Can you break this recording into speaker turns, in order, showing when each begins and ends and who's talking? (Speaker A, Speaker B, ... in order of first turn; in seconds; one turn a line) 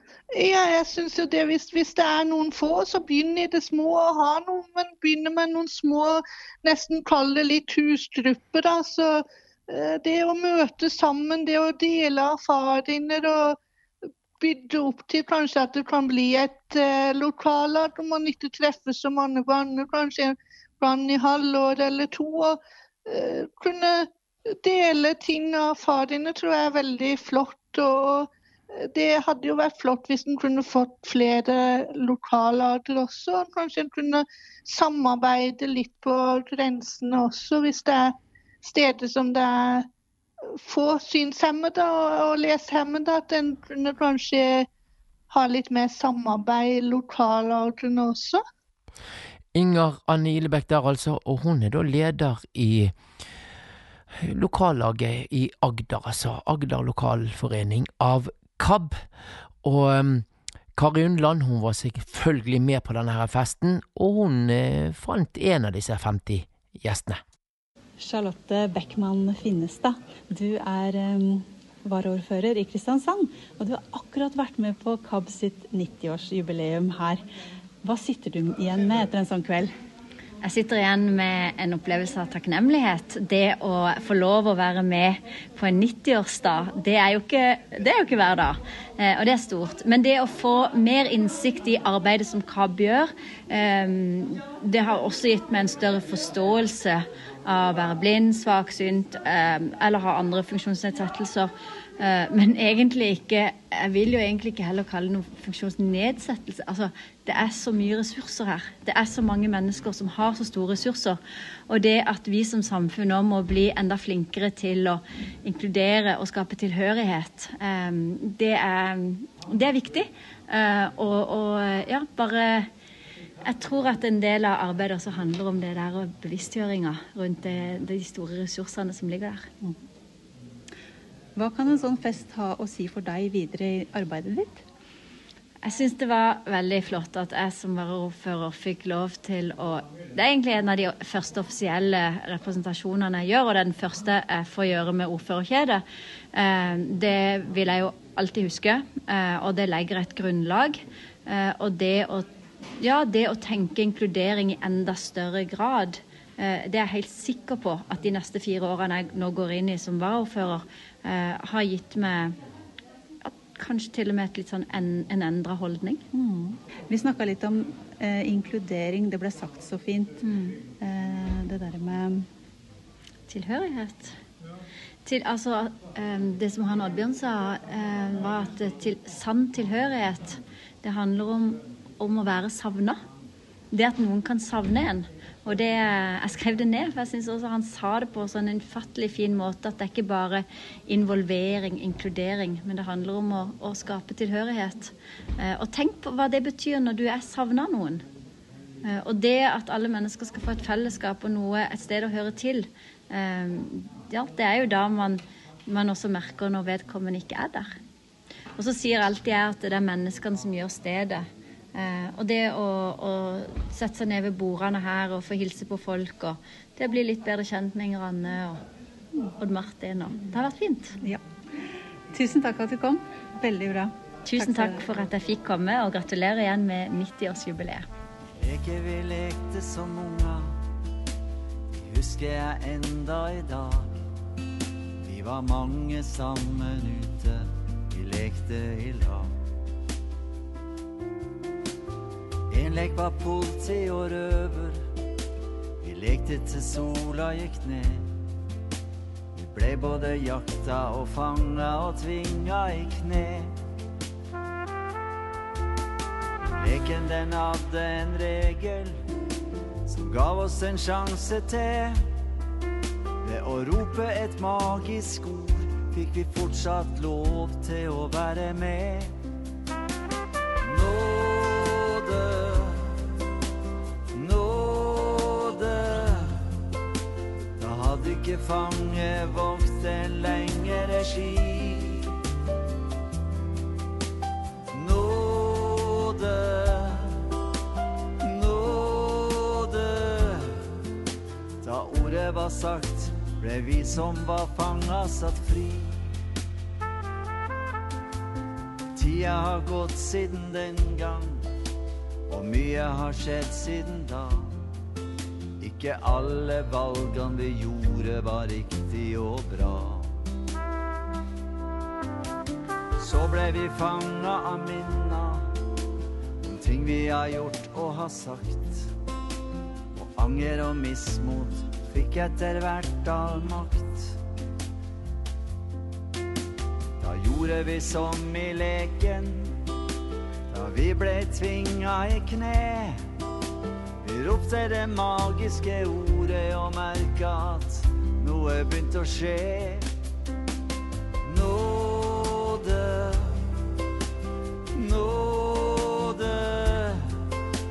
Speaker A: 0.3-13.6
Speaker A: 14.4-28.3
Speaker A: 28.8-39.9
Speaker A: 40.6-44.7
Speaker A: 45.3-48.4
Speaker B: 49.5-52.9
Speaker B: 54.1-59.0
Speaker B: 59.6-67.2
Speaker C: 68.0-77.2
Speaker C: 77.8-79.7
Speaker D: 80.4-122.7
Speaker D: 123.4-129.5
Speaker C: 131.3-134.6
Speaker D: 135.6-145.8
Speaker D: 146.3-152.3
Speaker D: 152.8-162.3
Speaker D: 163.2-166.0
Speaker C: 166.1-170.2
Speaker D: 170.2-170.6
Speaker C: 170.8-172.2
Speaker D: 173.3-174.2
Speaker D: 175.0-183.0
Speaker D: 183.7-198.0
Speaker D: 198.8-207.7
Speaker D: 208.6-218.6
Speaker D: 219.4-220.9
Speaker C: 222.1-224.8
Speaker D: 224.2-227.9
Speaker E: 228.4-230.5
Speaker E: 231.7-234.0
Speaker E: 235.0-239.3
Speaker E: 242.5-244.8
Speaker E: 245.8-248.1
Speaker E: 249.3-253.5
Speaker E: 256.6-259.0
Speaker E: 259.9-262.0
Speaker E: 263.2-269.1
Speaker E: 270.6-272.9
Speaker E: 274.1-276.5
Speaker E: 277.6-282.1
Speaker E: 284.7-287.2
Speaker E: 288.2-290.6
Speaker E: 291.6-296.0
Speaker E: 298.9-301.4
Speaker E: 302.3-304.6
Speaker E: 305.6-310.1
Speaker E: 313.0-315.5
Speaker E: 316.4-318.9
Speaker E: 319.9-324.1
Speaker E: 327.0-329.5
Speaker E: 330.5-333.0
Speaker E: 334.0-339.9
Speaker E: 341.2-343.5
Speaker E: 344.7-347.1